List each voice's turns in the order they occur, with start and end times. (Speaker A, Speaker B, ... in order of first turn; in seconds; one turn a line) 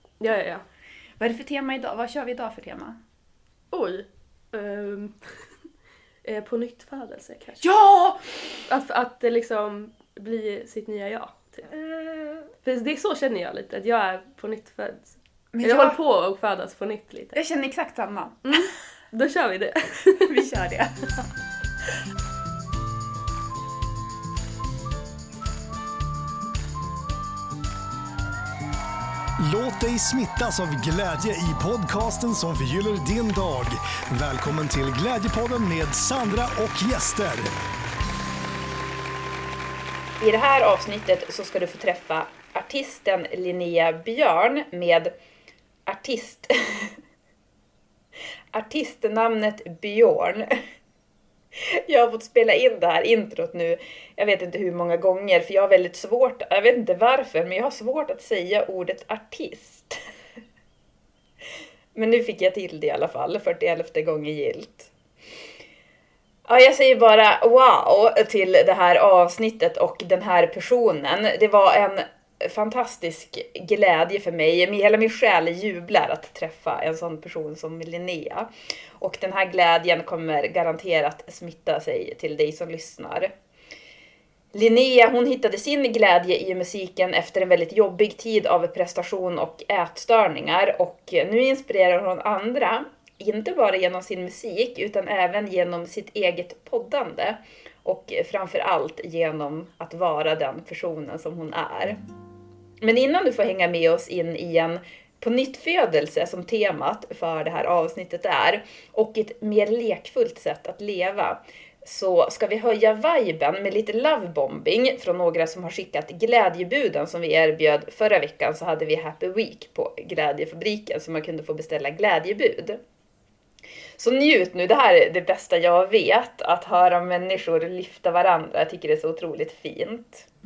Speaker A: 0.2-0.6
Speaker B: 1.2-3.0
Speaker A: 3.7-5.2
Speaker A: 6.2-7.6
Speaker B: 7.6-8.6
Speaker A: 8.7-11.7
Speaker B: 11.7-12.5
Speaker A: 12.6-17.4
Speaker B: 15.5-16.0
Speaker B: 17.3-18.5
Speaker A: 18.4-20.3
Speaker B: 20.1-20.9
Speaker C: 29.4-37.5
Speaker B: 40.2-45.1
Speaker B: 45.9-47.0
Speaker B: 48.5-50.6
Speaker B: 51.5-60.0
Speaker B: 61.9-64.9
Speaker B: 66.5-83.3
Speaker B: 84.5-102.0
Speaker B: 102.8-122.8
Speaker B: 124.0-130.3